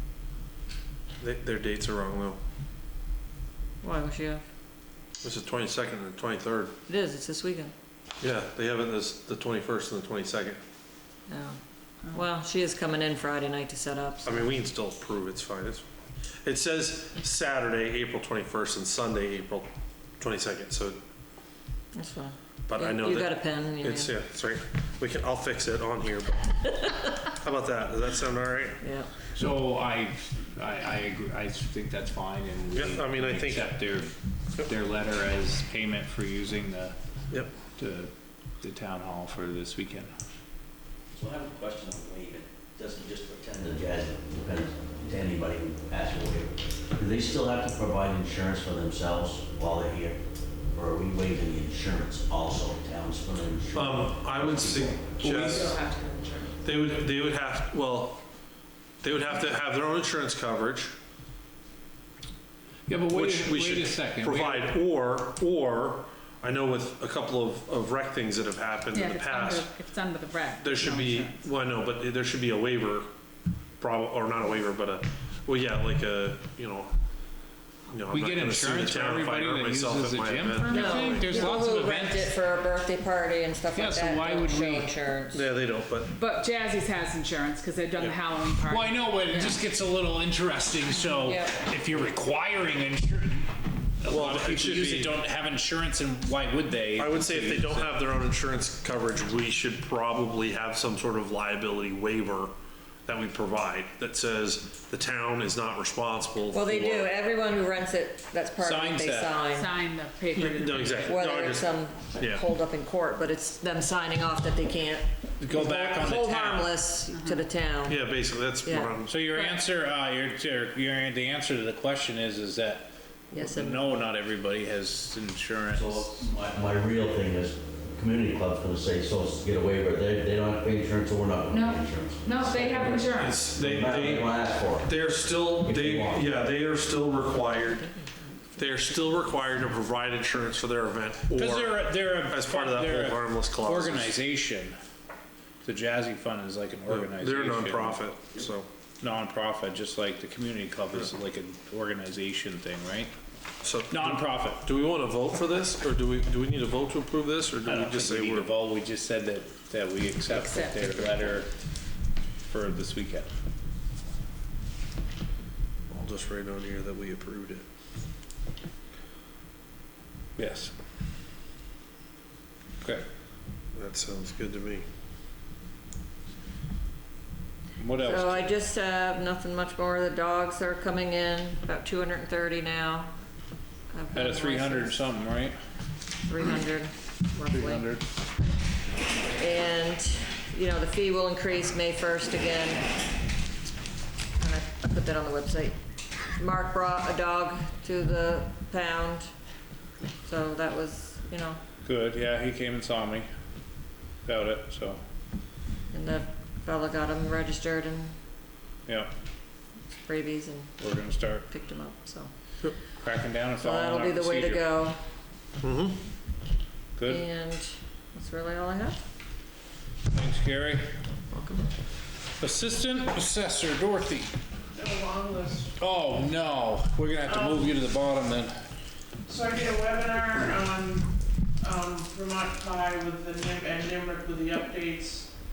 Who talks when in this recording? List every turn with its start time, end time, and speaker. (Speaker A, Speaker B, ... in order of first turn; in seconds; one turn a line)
Speaker A: 1.2-2.4
Speaker B: 3.8-4.4
Speaker A: 5.2-6.7
Speaker B: 6.9-7.7
Speaker A: 8.2-10.6
Speaker B: 11.3-14.4
Speaker A: 14.2-15.8
Speaker A: 16.4-21.0
Speaker B: 21.9-24.1
Speaker A: 22.7-28.8
Speaker B: 28.8-29.1
Speaker C: 29.4-36.9
Speaker A: 32.7-33.8
Speaker C: 37.8-40.1
Speaker D: 41.1-50.2
Speaker D: 50.7-55.1
Speaker A: 53.7-55.7
Speaker C: 55.2-55.8
Speaker E: 55.3-56.5
Speaker A: 56.6-58.2
Speaker A: 59.0-60.9
Speaker C: 62.9-64.8
Speaker A: 63.1-69.7
Speaker E: 68.9-71.5
Speaker A: 70.6-73.1
Speaker A: 73.8-76.9
Speaker A: 77.9-81.3
Speaker C: 78.1-82.3
Speaker E: 80.7-81.2
Speaker B: 80.7-85.4
Speaker C: 83.7-84.9
Speaker A: 85.3-86.1
Speaker E: 86.1-89.5
Speaker C: 88.6-98.0
Speaker B: 91.2-91.5
Speaker A: 94.1-95.2
Speaker A: 96.9-102.5
Speaker A: 103.0-107.1
Speaker B: 106.5-109.7
Speaker C: 108.6-109.4
Speaker E: 109.5-111.2
Speaker A: 110.3-112.4
Speaker B: 111.0-118.0
Speaker C: 115.4-116.7
Speaker E: 117.1-117.4
Speaker A: 117.8-119.2
Speaker B: 118.6-119.0
Speaker C: 119.1-126.2
Speaker E: 119.3-119.6
Speaker B: 123.3-123.9
Speaker D: 125.7-136.3
Speaker E: 131.5-133.4
Speaker A: 133.1-137.9
Speaker B: 137.4-139.6
Speaker A: 138.6-144.2
Speaker C: 141.3-144.7
Speaker C: 145.6-148.0
Speaker A: 146.9-148.7
Speaker C: 149.0-153.1
Speaker A: 153.6-158.5
Speaker C: 153.9-154.6
Speaker C: 157.6-161.5
Speaker E: 160.3-161.2
Speaker C: 162.5-163.3
Speaker A: 165.9-167.6
Speaker C: 170.4-170.7
Speaker A: 173.7-174.8
Speaker C: 177.8-178.5
Speaker B: 178.0-183.1
Speaker B: 183.9-185.0
Speaker C: 184.1-185.5
Speaker B: 186.2-187.9
Speaker C: 187.5-188.0
Speaker B: 189.3-192.9
Speaker B: 194.4-195.8
Speaker B: 196.4-199.3
Speaker B: 200.2-201.6
Speaker C: 201.8-203.2
Speaker C: 204.2-205.0
Speaker B: 205.9-208.1
Speaker B: 209.9-210.7
Speaker C: 210.8-211.4
Speaker B: 211.5-212.3
Speaker C: 213.0-214.7
Speaker B: 213.6-215.0
Speaker A: 215.6-216.0
Speaker C: 217.0-217.2
Speaker B: 217.1-219.0
Speaker C: 220.1-220.8
Speaker B: 221.3-221.7
Speaker C: 222.4-224.3
Speaker F: 224.7-225.7
Speaker C: 225.8-228.5
Speaker F: 227.2-227.7
Speaker F: 229.3-235.3